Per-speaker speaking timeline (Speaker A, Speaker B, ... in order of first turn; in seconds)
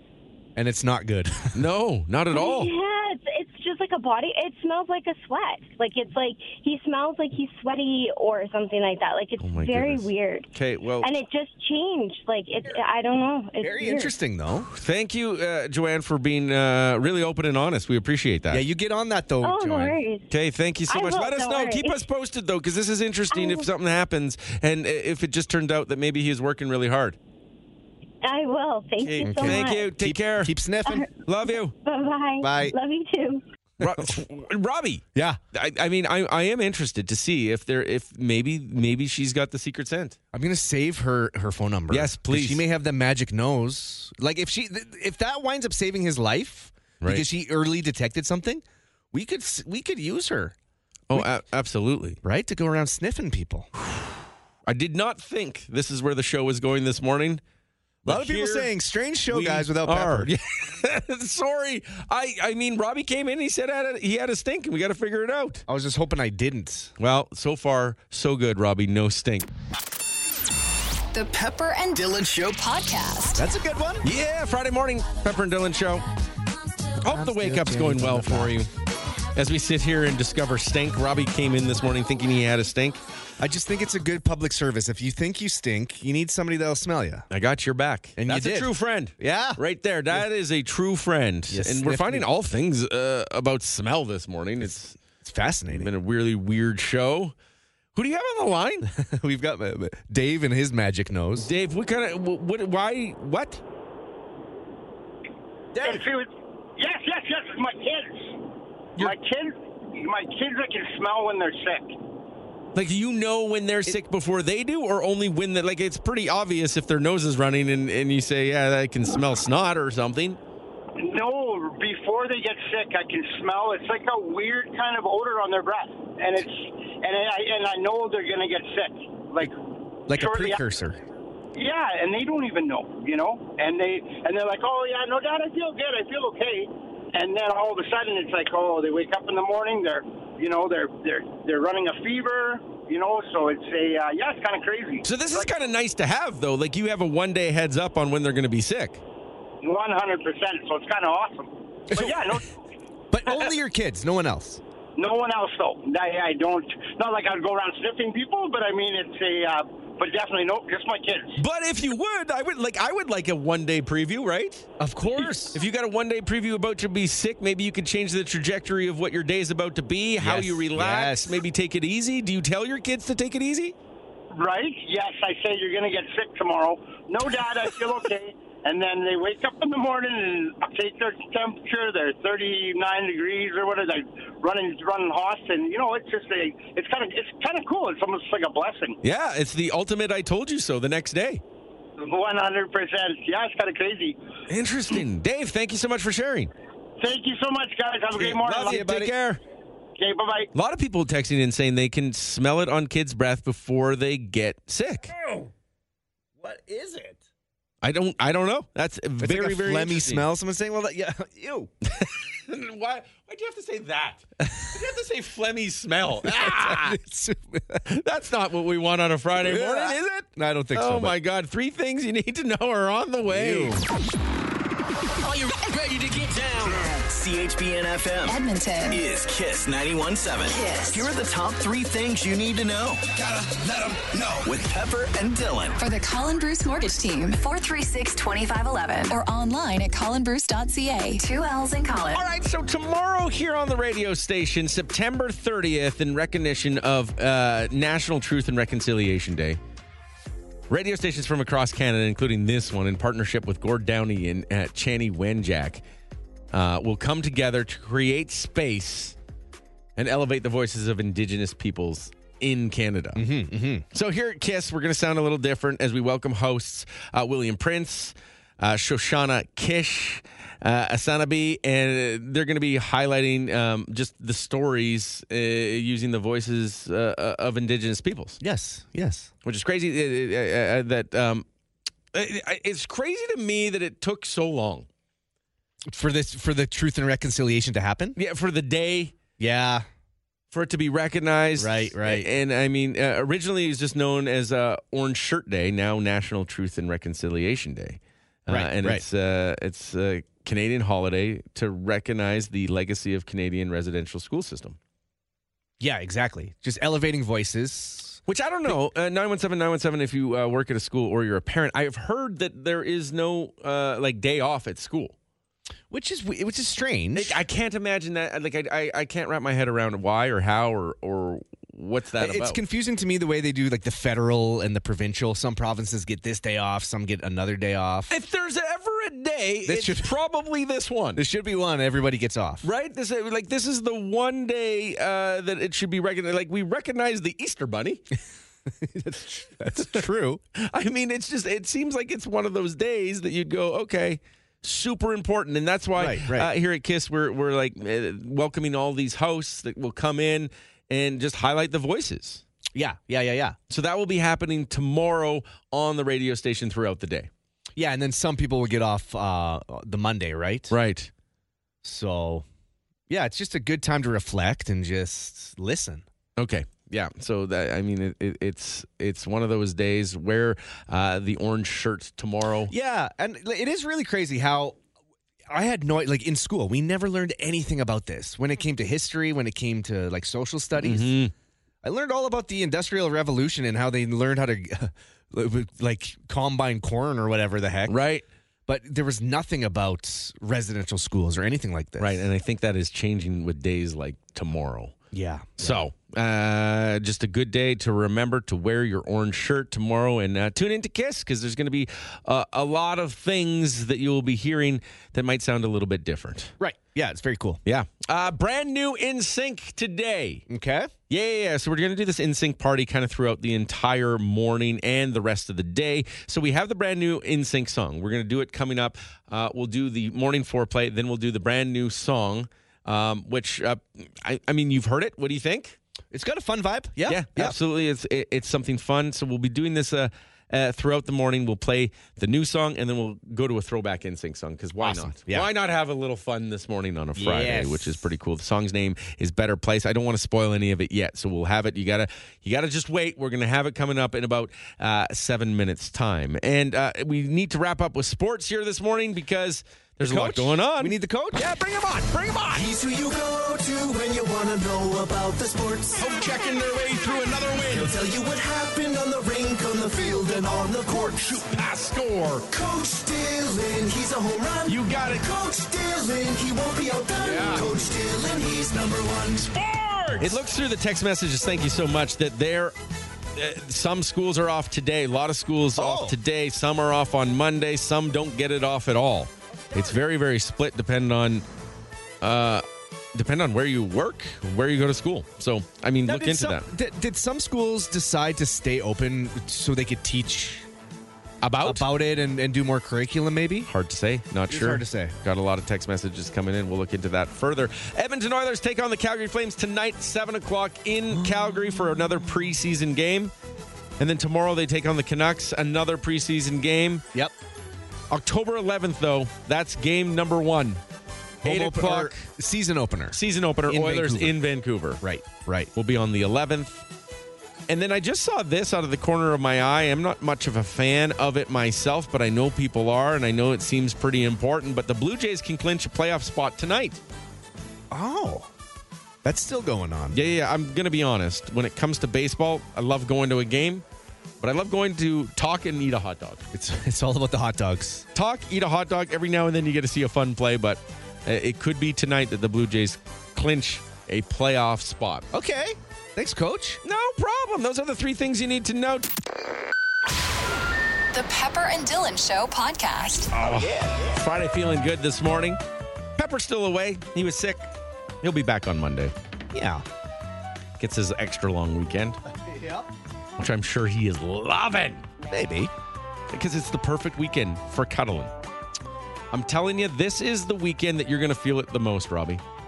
Speaker A: 0.6-1.6, 13.6-14.7, 18.5-20.0, 29.2-31.1, 32.4-32.7, 33.8-34.1, 35.1-35.4, 40.3-50.5, 52.2-53.7, 58.0-60.3, 65.7-66.9, 73.3-74.1, 77.0-78.6, 83.4-87.3, 88.2-90.2, 91.5-92.3, 94.7-95.9, 98.8-101.5, 105.7-106.0, 130.1-131.0, 151.9-152.3, 153.1-154.6, 164.8-165.6, 170.2-171.4, 198.6-199.1, 205.1-205.5, 206.4-207.2, 209.2-211.7, 216.2-217.9, 219.4-221.1, 223.3-223.8, 263.1-263.8, 278.4-279.3, 285.9-288.2, 289.4-289.9, 291.6-292.3, 298.5-299.0, 305.8-308.8, 315.9-317.4, 322.2-328.1, 329.6-330.1, 331.1-332.7, 338.7-340.4, 345.9-346.5, 352.7-353.6, 357.8-360.7, 361.8-362.4, 363.1-366.0, 372.7-374.8, 375.5-381.2, 381.8-388.0, 388.7-392.2, 395.1-395.8, 406.6-407.6, 410.5-410.9, 426.1-427.6, 434.8-435.5, 437.1-438.0, 450.0-451.5, 452.5-456.1, 457.7-461.4, 462.5-469.6, 470.1-470.4, 475.8-476.2, 486.0-490.7, 491.6-493.7, 494.5-495.1, 511.4-514.4, 515.0-515.7, 527.9-528.5, 529.2-530.2, 536.5-538.1, 545.3-546.8, 553.4-554.2, 559.5-559.8, 562.3-562.9, 565.3-565.7
Speaker B: 1.5-2.7, 9.4-11.1, 14.7-18.6, 20.3-27.2, 29.0-30.5, 31.2-31.7, 33.8-40.2, 41.9-42.6, 51.1-52.2, 53.8-54.1, 54.6-57.4, 58.0-58.7, 59.3-65.6, 67.0-69.5, 74.0-76.0, 77.0-78.7, 79.3-83.0, 87.3-95.0, 95.7-97.3, 97.9-98.9, 101.4-103.6, 112.7-120.4, 145.0-149.0, 161.4-173.7, 189.0-191.4, 194.5-196.5, 198.1-199.4, 200.5-205.1, 207.8-210.3, 211.9-217.0, 217.9-223.8, 242.1-249.6, 250.7-255.8, 256.5-259.1, 260.0-263.2, 263.9-278.4, 279.4-281.4, 282.1-284.9, 288.1-289.1, 290.5-304.8, 308.3-315.1, 317.1-322.6, 328.1-331.2, 332.6-338.0, 340.6-352.4, 353.7-357.3, 360.7-361.1, 366.4-372.7, 380.8-381.3, 387.9-388.2, 392.0-394.9, 395.6-406.5, 407.6-410.4, 411.1-425.8, 427.1-452.7, 456.0-457.9, 461.3-462.5, 464.7-465.3, 467.2-467.8, 470.1-472.7, 473.3-481.4, 482.2-486.7, 491.4-491.9, 493.7-503.3, 504.0-507.0, 508.1-510.8, 511.4-512.3, 513.1-515.0, 515.8-516.8, 517.7-527.0, 530.1-533.8, 534.4-536.4, 538.1-545.2, 546.8-549.0, 553.3-555.6, 556.2-557.6, 558.2-559.1, 560.8-562.2, 563.4-565.0, 566.3-568.3, 569.3-572.4
Speaker C: 2.3-10.5, 11.0-14.1, 19.4-20.3, 20.9-22.0, 23.3-23.7, 28.2-29.9, 30.9-31.1, 31.8-33.4
Speaker D: 71.1-73.4, 228.3-229.0, 230.6-231.0, 235.8-242.3, 551.1-553.3
Speaker E: 71.9-72.7, 225.2-235.8
Speaker F: 105.8-108.4, 109.0-111.9, 121.0-129.5, 130.1-130.6, 131.5-145.5, 149.6-152.5, 155.0-161.4, 174.3-189.0, 192.0-194.2, 197.0-198.8, 200.0-200.5